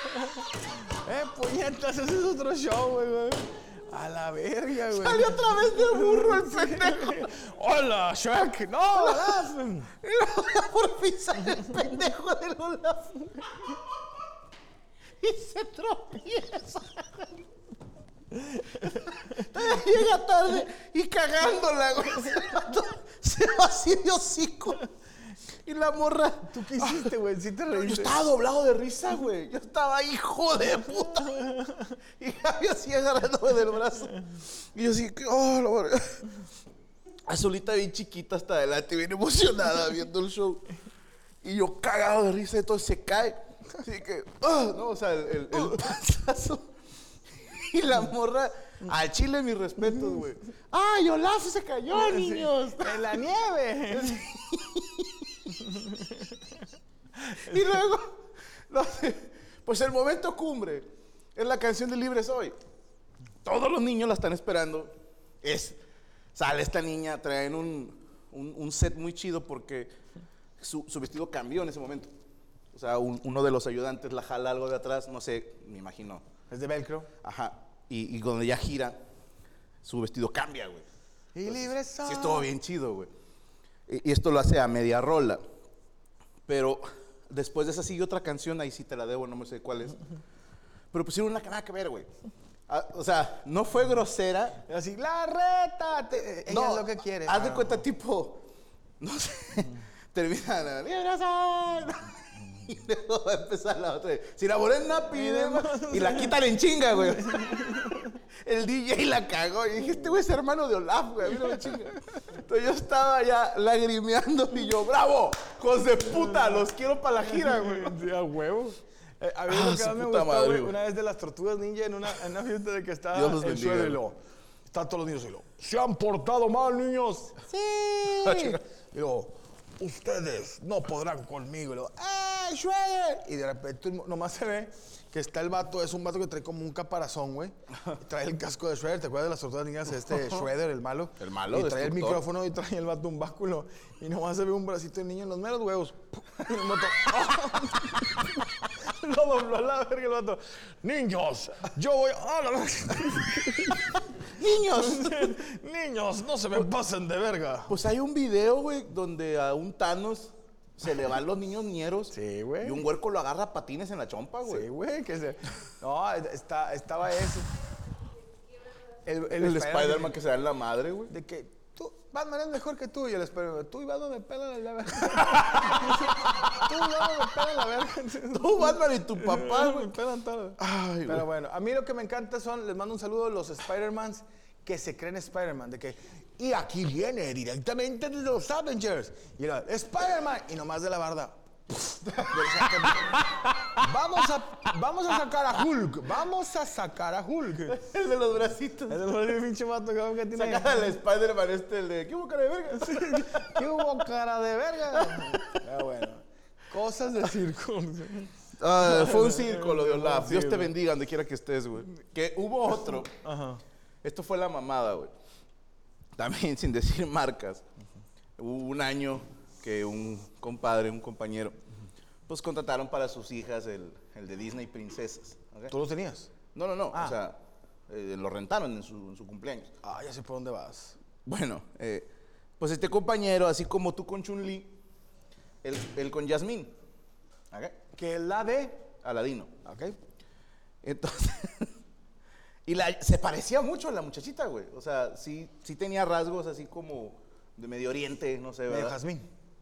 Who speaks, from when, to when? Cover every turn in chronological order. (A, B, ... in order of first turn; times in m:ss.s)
0:01.0-0:09.9 A
0:04.9-0:07.3 B
0:09.0-0:09.4 B
0:10.0-0:13.1 B
0:15.2-0:17.1 B
0:19.4-0:24.8 B
0:25.6-0:27.0 B
0:26.5-0:28.2 A
0:27.7-0:31.6 B
0:32.2-0:36.2 B
0:37.3-0:40.6 B
0:41.4-0:46.7 B
0:47.5-0:53.0 B
0:51.9-0:54.2 A
0:53.9-0:55.1 B
0:57.5-1:02.6 B
1:03.4-1:05.8 B
1:06.3-1:09.9 B
1:10.6-1:12.1 B
1:12.7-1:16.2 B
1:16.5-1:17.1 A
1:17.2-1:19.0 B
1:19.8-1:20.8 B
1:21.3-1:22.5 A
1:21.5-1:23.1 B
1:23.9-1:25.4 B
1:26.4-1:30.0 B
1:30.9-1:32.1 B
1:32.7-1:34.6 B
1:34.6-1:37.8 A
1:36.5-1:38.4 B
1:39.0-1:47.4 B
1:45.1-1:46.6 A
1:47.1-1:48.0 A
1:48.4-1:58.0 B
1:57.4-2:34.0 A
1:59.5-2:00.7 B
2:03.1-2:04.0 B
2:08.2-2:08.6 B
2:21.2-2:22.2 B
2:34.4-2:35.3 B
2:34.7-2:37.7 A
2:37.7-2:44.6 B
2:42.1-2:42.8 A
2:44.5-2:47.5 A
2:49.0-2:50.2 A
2:49.4-2:51.1 B
2:51.1-3:17.8 A
2:58.3-2:59.9 B
3:00.6-3:01.2 B
3:17.7-3:19.0 B
3:18.9-3:20.9 A
3:20.3-3:23.5 B
3:22.8-3:30.7 A
3:24.9-3:25.5 B
3:28.6-3:33.1 B
3:33.2-3:33.6 A
3:34.0-3:35.1 B
3:36.2-3:37.6 B
3:38.4-3:41.6 B
3:42.3-3:45.7 B
3:45.7-3:46.3 A
3:46.5-3:49.7 B
3:49.8-3:51.0 A
3:51.2-3:54.8 B
3:55.6-3:56.7 B
3:57.5-3:57.8 B
3:57.9-3:58.8 A
3:59.0-3:59.5 B
3:59.6-4:00.0 A
4:00.8-4:01.7 B
4:02.6-4:09.0 B
4:08.7-4:09.2 A